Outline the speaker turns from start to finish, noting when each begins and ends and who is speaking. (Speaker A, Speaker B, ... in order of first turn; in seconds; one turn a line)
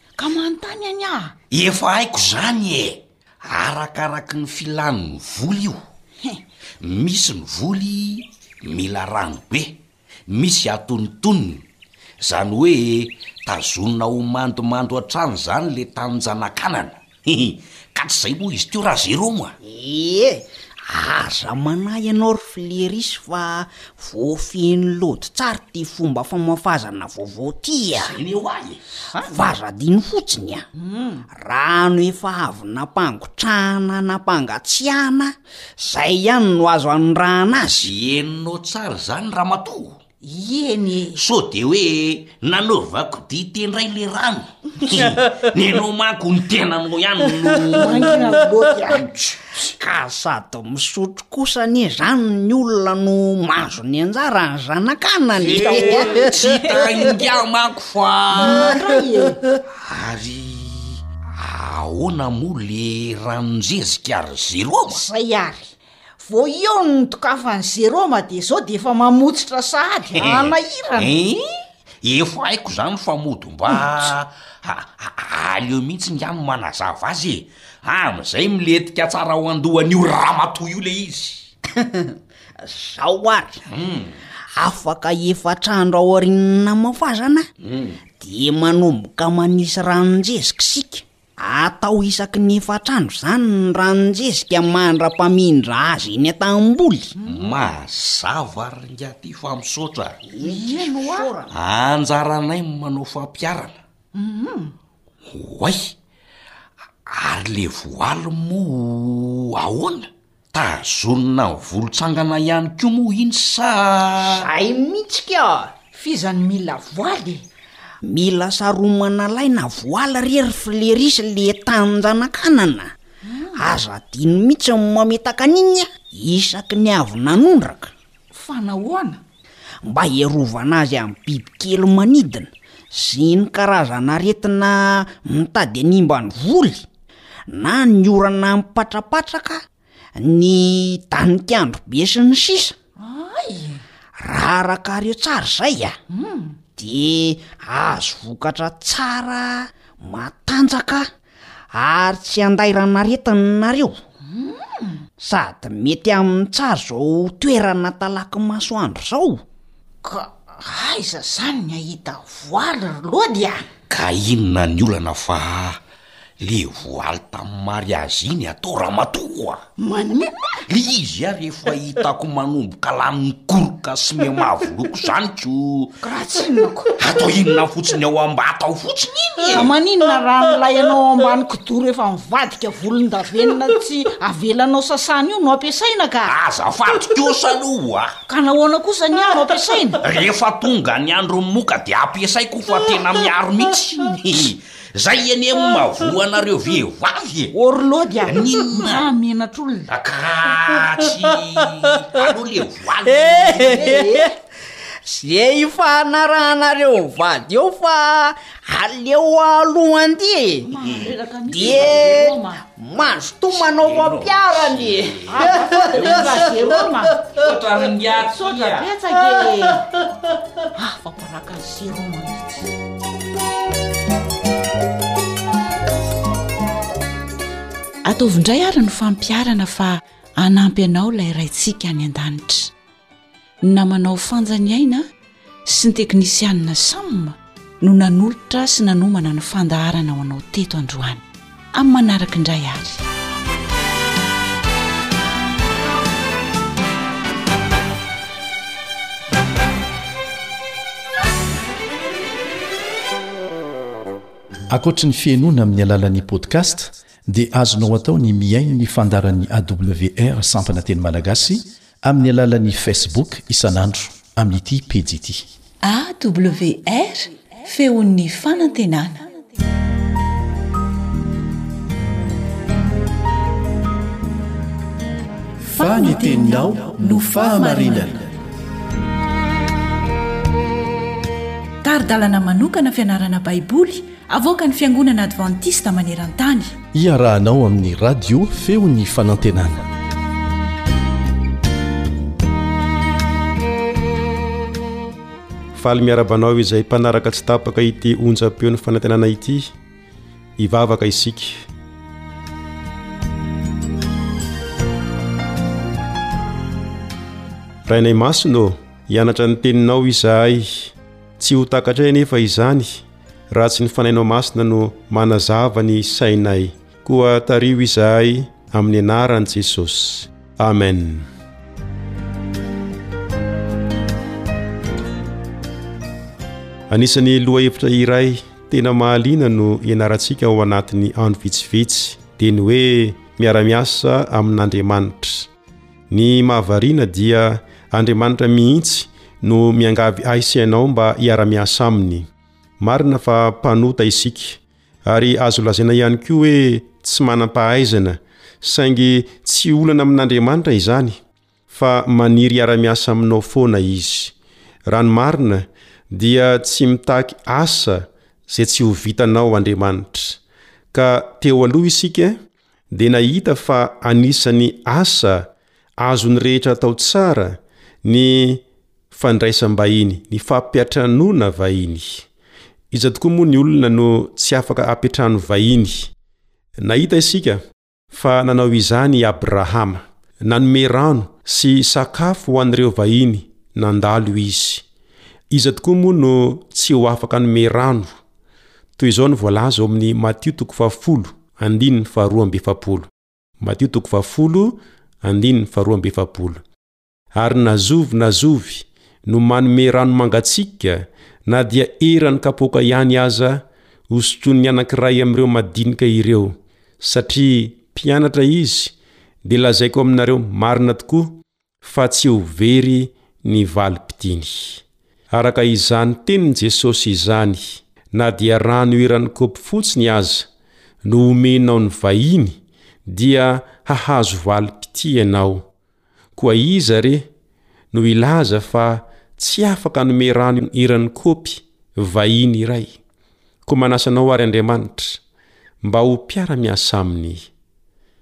Speaker A: 0.2-1.4
Speaker B: 1.5-5.8
Speaker B: 6.8-9.8
Speaker B: 10.3-11.6
Speaker B: 12.2-19.6
Speaker C: 19.6-28.2
Speaker B: 28.0-28.8
Speaker C: 29.2-30.7
Speaker A: 30.8-31.2
Speaker C: 31.3-37.9
Speaker B: 37.8-40.0
Speaker A: 40.2-41.2
Speaker B: 41.2-48.2
Speaker A: 47.8-49.1
Speaker C: 49.7-56.3
Speaker B: 55.4-58.7
Speaker A: 55.5-56.1
Speaker A: 58.4-59.4
Speaker B: 59.8-65.0
Speaker A: 64.9-71.1
Speaker B: 70.1-71.4
Speaker B: 72.0-81.5
Speaker C: 81.8-83.6
Speaker B: 83.7-84.2
Speaker C: 84.5-87.5
Speaker B: 87.6-88.0
Speaker C: 88.1-97.1
Speaker B: 97.2-100.2
Speaker C: 100.2-101.5
Speaker A: 100.4-101.4
Speaker B: 101.5-103.8
Speaker A: 104.2-104.7
Speaker B: 105.3-105.9
Speaker B: 107.1-114.5
Speaker C: 114.2-115.7
Speaker A: 115.9-117.4
Speaker C: 118.0-122.9
Speaker A: 123.2-123.8
Speaker C: 123.6-127.9
Speaker A: 128.3-129.2
Speaker C: 129.8-136.8
Speaker C: 137.5-139.6
Speaker C: 140.2-142.8
Speaker A: 143.0-143.8
Speaker C: 144.2-146.0
Speaker A: 146.1-146.6
Speaker C: 146.8-151.1
Speaker C: 151.7-154.0
Speaker A: 154.3-155.0
Speaker C: 155.2-159.4
Speaker A: 160.0-163.7
Speaker B: 163.9-165.8
Speaker B: 166.4-169.6
Speaker A: 169.8-170.4
Speaker B: 170.7-176.0
Speaker A: 176.0-176.9
Speaker B: 177.0-179.7
Speaker A: 179.5-186.3
Speaker B: 186.2-188.2
Speaker A: 188.3-190.0
Speaker B: 190.0-197.5
Speaker A: 197.5-199.9
Speaker B: 198.3-199.1
Speaker B: 199.9-204.0
Speaker C: 203.9-204.3
Speaker C: 205.0-210.7
Speaker A: 210.7-212.6
Speaker B: 211.5-211.9
Speaker C: 211.6-215.8
Speaker B: 213.5-218.9
Speaker A: 215.3-217.2
Speaker A: 218.3-219.8
Speaker A: 220.8-222.7
Speaker D: 228.1-232.7
Speaker D: 233.6-235.1
Speaker D: 235.7-241.2
Speaker D: 241.7-243.0
Speaker E: 254.7-265.4
Speaker D: 265.8-269.2
Speaker E: 275.7-278.3
Speaker D: 275.8-278.2
Speaker D: 281.8-286.7
Speaker E: 286.9-289.8
Speaker F: 295.8-299.7
Speaker F: 300.6-301.6
Speaker F: 307.9-321.3
Speaker F: 326.9-335.5
Speaker F: 336.1-342.3
Speaker F: 342.8-351.2
Speaker F: 351.7-354.3
Speaker F: 354.9-360.4
Speaker F: 360.9-362.4
Speaker F: 362.9-365.5
Speaker F: 366.0-368.6
Speaker F: 369.1-372.3
Speaker F: 372.9-376.1
Speaker F: 376.8-384.8
Speaker F: 385.5-388.2
Speaker F: 389.0-393.1
Speaker F: 393.6-396.6
Speaker F: 397.4-408.9
Speaker F: 409.4-420.5
Speaker F: 421.1-425.7
Speaker F: 426.4-427.3
Speaker F: 427.9-433.0
Speaker F: 433.7-435.2
Speaker F: 435.8-437.5